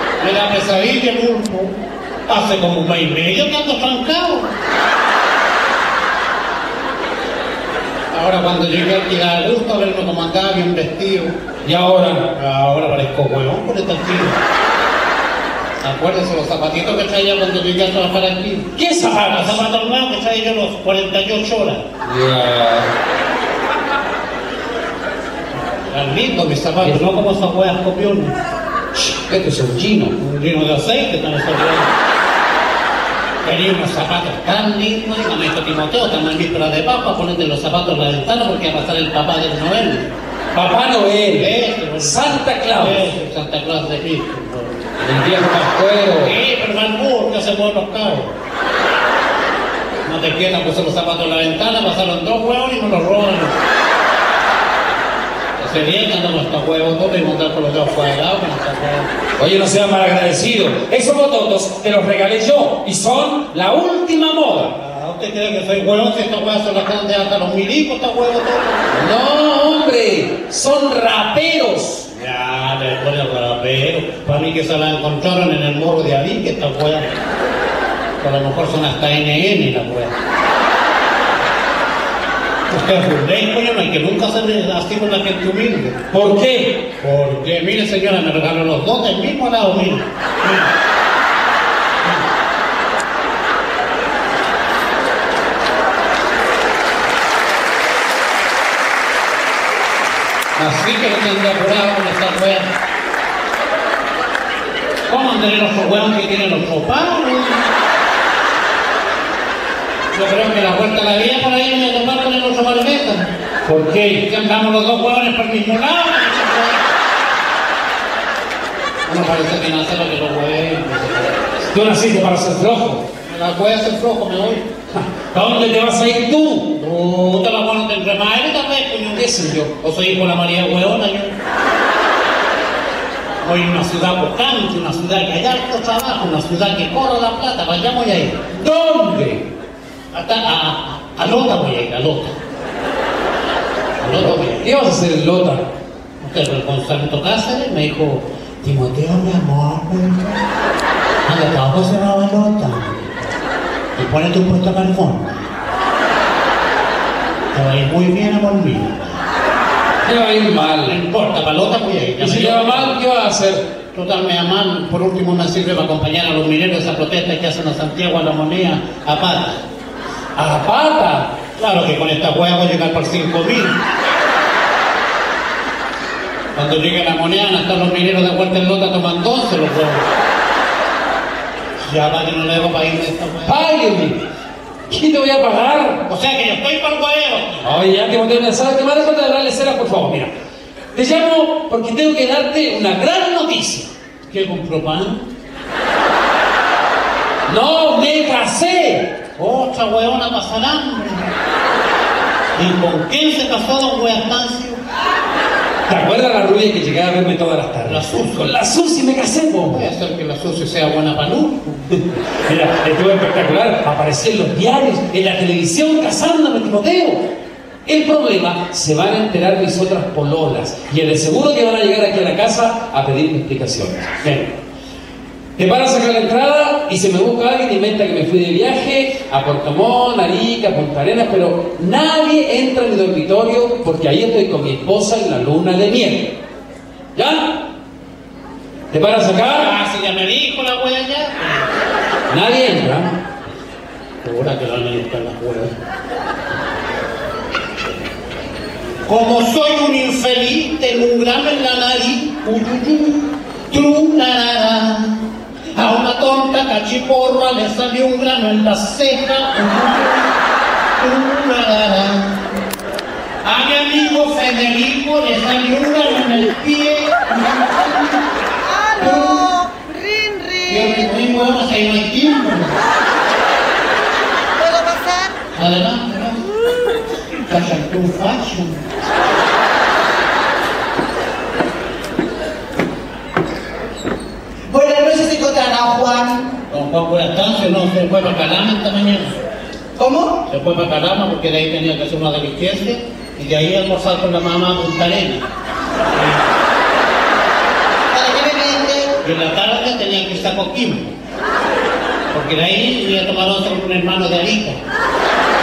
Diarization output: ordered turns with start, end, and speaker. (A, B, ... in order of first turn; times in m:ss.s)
0:00.2-0:01.7 A
0:02.3-0:04.5 A
0:08.1-0:11.4 A
0:11.6-0:12.3 B
0:12.3-0:14.4 A
0:15.8-0:18.7 A
0:18.8-0:19.6 B
0:19.3-0:21.8 A
0:22.0-0:22.9 B
0:25.9-0:28.4 A
0:29.0-0:30.1 B
0:30.2-0:31.9 A
0:33.4-0:40.1 A
0:40.6-0:41.5 B
0:41.3-0:44.9 A
0:42.0-0:43.0 B
0:45.0-0:46.4 B
0:46.2-0:48.3 A
0:50.1-0:53.6 A
0:55.6-0:59.1 A
0:59.4-1:04.7 B
1:04.8-1:08.8 A
1:08.9-1:12.1 B
1:12.1-1:17.1 A
1:18.2-1:20.1 A
1:22.7-1:26.0 A
1:26.1-1:26.8 B
1:27.0-1:30.7 A
1:40.6-1:42.7 A
1:45.1-1:47.6 A
1:50.1-1:53.2 A
1:53.7-1:54.3 B
1:54.2-1:56.8 A
1:59.1-2:01.4 A
2:01.7-2:03.1 B
2:03.2-2:04.6 A
2:04.9-2:06.7 B
2:06.7-2:09.2 A
2:09.1-2:09.7 B
2:09.8-2:11.3 A
2:13.4-2:18.4 A
2:18.6-2:19.5 B
2:20.1-2:22.4 A
2:24.0-2:24.7 A
2:24.6-2:25.7 B
2:26.2-2:30.4 A
2:31.3-2:33.1 A
2:34.0-2:35.5 A
2:37.5-2:39.2 A
2:40.0-2:41.0 B
2:40.9-2:42.9 A
2:42.2-2:43.6 B
2:43.9-2:49.6 A
2:50.4-2:53.8 A
2:56.6-3:00.0 A
3:01.9-3:03.6 A
3:03.5-3:04.2 B
3:04.9-3:06.0 B
3:06.0-3:07.7 A
3:07.6-3:10.3 B
3:10.9-3:13.9 B
3:14.3-3:15.2 A
3:17.5-3:19.2 B
3:19.4-3:21.2 A
3:22.6-3:24.8 A
3:25.9-3:29.9 B
3:27.9-3:28.5 A
3:29.6-3:32.0 A
3:32.5-3:37.3 B
3:37.9-3:44.5 B
3:45.6-3:56.4 B
3:57.2-3:57.7 B
3:58.9-3:59.7 B
3:59.5-4:01.7 A
4:02.3-4:03.1 B
4:04.2-4:05.7 A
4:09.1-4:20.3 A
4:21.0-4:22.4 A
4:23.4-4:28.2 A
4:28.6-4:31.0 C
4:29.0-4:29.4 A
4:30.7-4:32.8 A
4:34.6-4:35.3 C
4:35.6-4:36.4 A
4:37.5-4:38.8 A
4:44.7-4:46.5 C
4:46.7-4:49.3 A
4:50.0-4:50.4 C
4:50.5-4:55.4 A
4:56.1-4:56.4 A
4:58.1-4:59.1 C
4:59.2-5:01.1 A
5:02.3-5:04.8 A